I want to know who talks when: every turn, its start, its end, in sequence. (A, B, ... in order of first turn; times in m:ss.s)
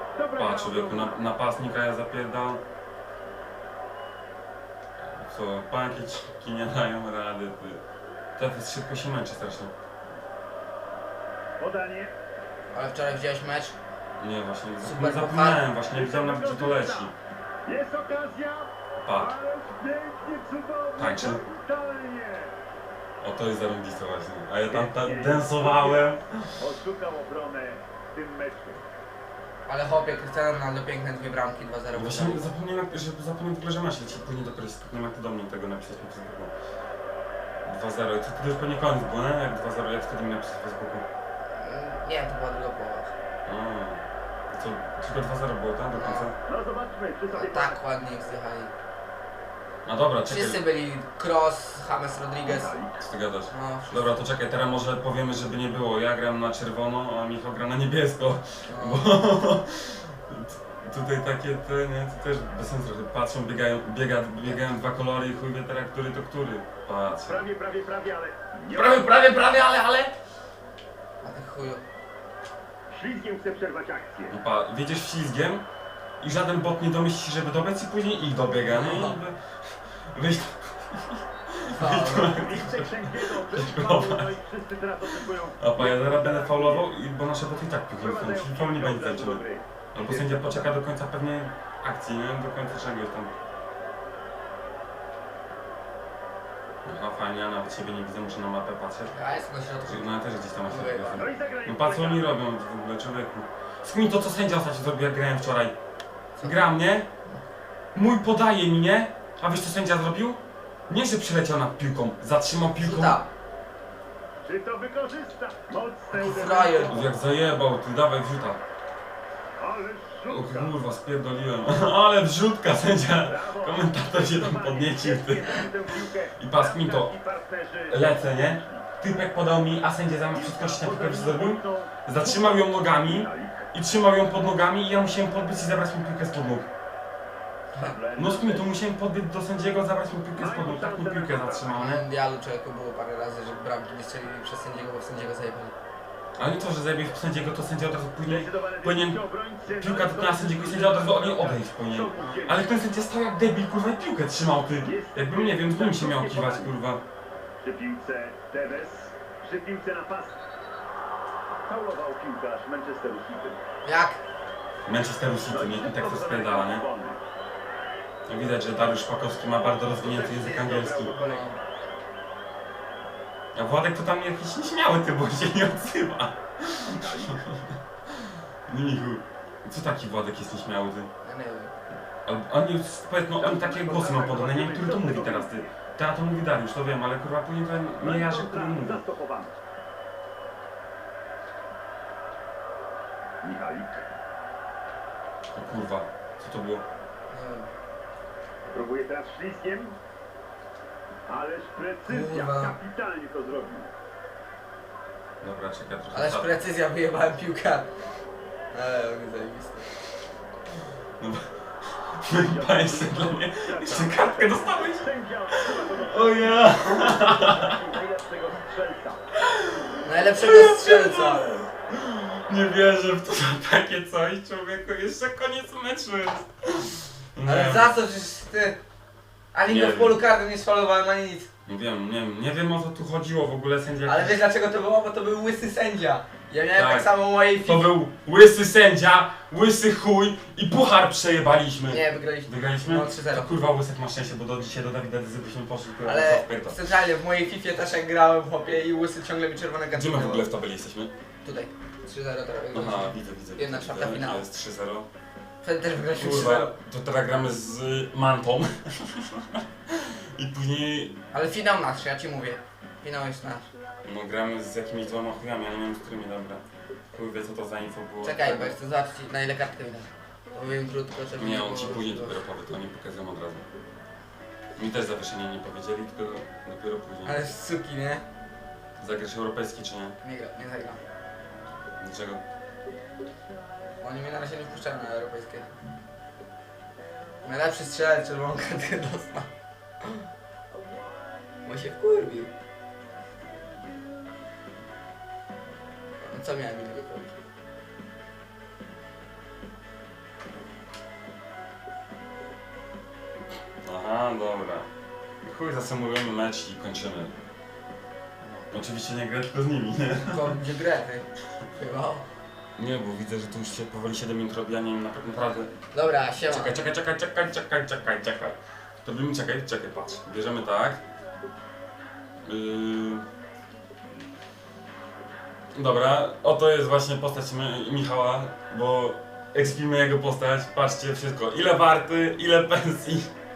0:00.1-0:01.2 A
0:00.4-0:02.6 B
0:05.0-0:07.8 B
0:08.4-0:09.7 B
0:11.6-0:12.1 A
0:12.7-0:13.8 C
0:14.2-0:17.1 B
0:14.8-0:15.6 C
0:15.8-0:17.1 A
0:17.6-0:22.6 A
0:19.0-0:19.3 B
0:21.0-0:21.4 B
0:23.2-0:26.6 B
0:24.6-0:28.8 A
0:29.6-0:32.5 C
0:31.9-0:36.5 B
0:37.6-0:41.0 B
0:41.5-0:43.1 C
0:43.4-0:46.3 B
0:45.9-0:46.3 C
0:46.4-0:47.8 A
0:47.3-0:48.7 C
0:49.8-0:50.6 B
0:50.3-0:52.7 C
0:52.4-0:53.1 A
0:53.0-1:07.4 B
0:53.5-0:54.2 C
0:58.7-0:59.1 C
1:04.4-1:04.8 C
1:07.2-1:09.1 A
1:08.7-1:10.1 B
1:11.2-1:11.8 C
1:12.9-1:14.3 A
1:14.3-1:15.6 B
1:16.2-1:19.4 B
1:18.7-1:19.2 C
1:20.1-1:24.3 B
1:21.7-1:22.4 C
1:22.3-1:26.9 A
1:25.6-1:33.3 B
1:28.0-1:30.8 A
1:36.8-1:39.2 B
1:39.1-1:40.1 C
1:39.8-1:45.7 B
1:40.6-1:41.3 C
1:41.1-1:42.4 A
1:46.3-1:46.7 C
1:46.4-1:47.1 B
1:47.9-1:53.2 B
1:52.8-1:53.3 C
1:54.4-1:57.1 A
1:56.1-1:57.0 C
1:56.9-1:58.6 B
1:59.6-2:00.7 A
2:00.3-2:05.8 B
2:03.0-2:08.9 A
2:06.4-2:07.2 B
2:07.9-2:16.7 B
2:10.3-2:13.7 A
2:17.8-2:18.8 A
2:18.1-2:22.0 B
2:20.4-2:21.9 A
2:21.7-2:25.7 C
2:26.4-2:37.0 B
2:28.2-2:32.8 A
2:34.8-2:36.7 A
2:37.6-2:40.4 A
2:41.6-2:43.6 A
2:43.8-2:44.2 C
2:44.8-2:46.8 B
2:45.5-2:47.2 A
2:48.3-2:51.2 B
2:49.9-2:51.5 A
2:51.1-2:51.6 C
2:53.5-3:01.1 B
2:56.8-2:57.4 A
3:01.2-3:01.7 C
3:02.2-3:09.0 B
3:03.4-3:05.7 A
3:08.0-3:09.5 A
3:13.4-3:14.1 A
3:15.5-3:16.8 B
3:17.3-3:17.7 C
3:18.7-3:20.0 A
3:21.3-3:23.9 A
3:22.0-3:22.8 C
3:25.4-3:26.6 B
3:26.1-3:27.9 C
3:28.7-3:29.9 C
3:31.2-3:31.5 B
3:32.1-3:37.8 B
3:32.3-3:39.3 A
3:39.4-3:47.9 B
3:40.0-3:41.5 C
3:47.4-3:48.8 C
3:49.5-3:51.5 C
3:49.6-3:50.2 B
3:51.6-3:54.4 B
3:54.0-3:57.9 C
3:56.7-4:06.9 B
4:01.9-4:03.6 C
4:06.0-4:10.5 C
4:09.9-4:11.1 B
4:11.4-4:14.4 C
4:12.7-4:15.1 B
4:15.6-4:16.8 C
4:16.2-4:21.2 B
4:21.3-4:23.7 C
4:24.0-4:28.8 B
4:28.2-4:32.4 C
4:31.3-4:33.7 B
4:34.7-4:37.4 B
4:37.2-4:38.2 C
4:39.0-4:40.2 B
4:40.2-4:41.0 C
4:42.0-4:42.4 B
4:44.0-4:45.8 C
4:47.4-4:49.5 C
4:51.6-4:52.5 C
4:56.2-4:57.3 C
5:03.8-5:04.9 B
5:05.4-5:07.3 B
5:08.4-5:08.7 C
5:08.7-5:10.6 B
5:10.2-5:12.2 C
5:12.8-5:15.7 B
5:15.9-5:16.9 C
5:16.4-5:21.0 B
5:22.4-5:23.2 B
5:25.7-5:33.3 B